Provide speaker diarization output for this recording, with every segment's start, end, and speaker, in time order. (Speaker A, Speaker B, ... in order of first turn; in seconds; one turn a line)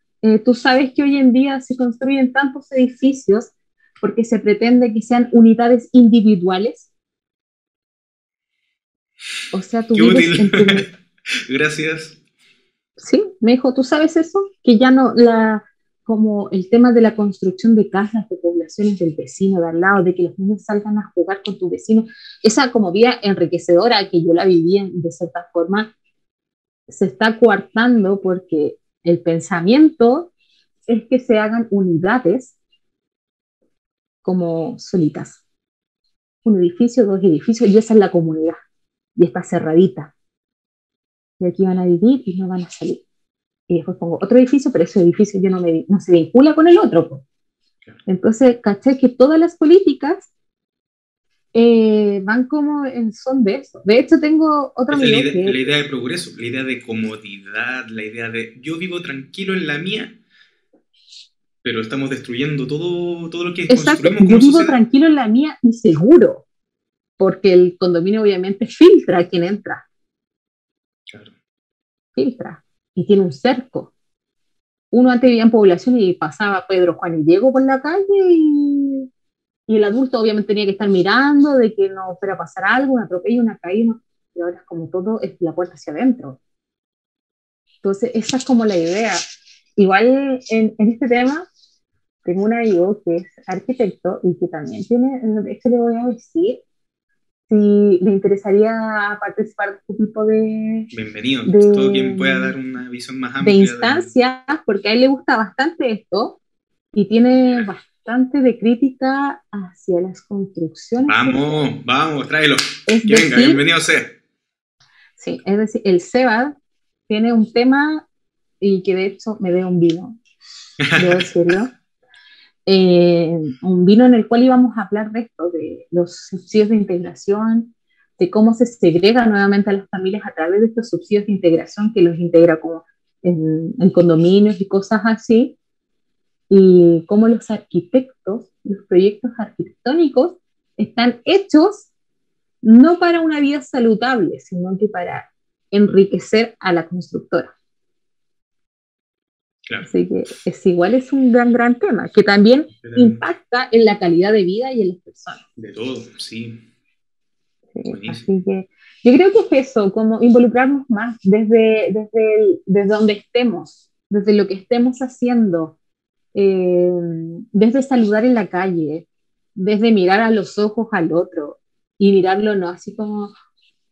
Speaker A: 0.2-6.9
Speaker A: 9.5-10.9
Speaker B: 9.9-10.9
Speaker B: 11.5-12.2
Speaker A: 13.0-25.9
Speaker A: 26.9-30.3
Speaker A: 30.9-32.5
Speaker A: 34.2-35.4
Speaker A: 36.4-38.6
Speaker A: 39.1-40.1
Speaker A: 41.4-43.0
Speaker A: 43.7-47.2
Speaker A: 48.0-50.3
Speaker A: 51.5-55.6
Speaker B: 54.9-60.2
Speaker B: 61.6-64.8
Speaker A: 63.7-66.5
Speaker A: 67.2-69.8
Speaker B: 71.1-71.3
Speaker A: 72.2-73.9
Speaker A: 74.9-79.1
Speaker A: 79.7-86.4
Speaker A: 87.8-89.2
Speaker A: 89.8-91.5
Speaker A: 92.2-96.6
Speaker A: 97.5-100.9
Speaker B: 100.9-104.1
Speaker A: 101.4-102.5
Speaker A: 103.4-106.4
Speaker A: 106.9-111.6
Speaker B: 111.0-114.2
Speaker A: 112.9-113.6
Speaker A: 115.2-116.5
Speaker A: 117.1-118.0
Speaker A: 118.6-120.2
Speaker B: 120.8-121.3
Speaker A: 121.0-121.7
Speaker A: 122.7-135.6
Speaker A: 136.5-141.9
Speaker A: 142.6-147.5
Speaker A: 149.8-155.4
Speaker B: 152.8-153.2
Speaker B: 155.6-156.6
Speaker A: 157.7-165.8
Speaker B: 157.8-158.2
Speaker A: 166.3-173.3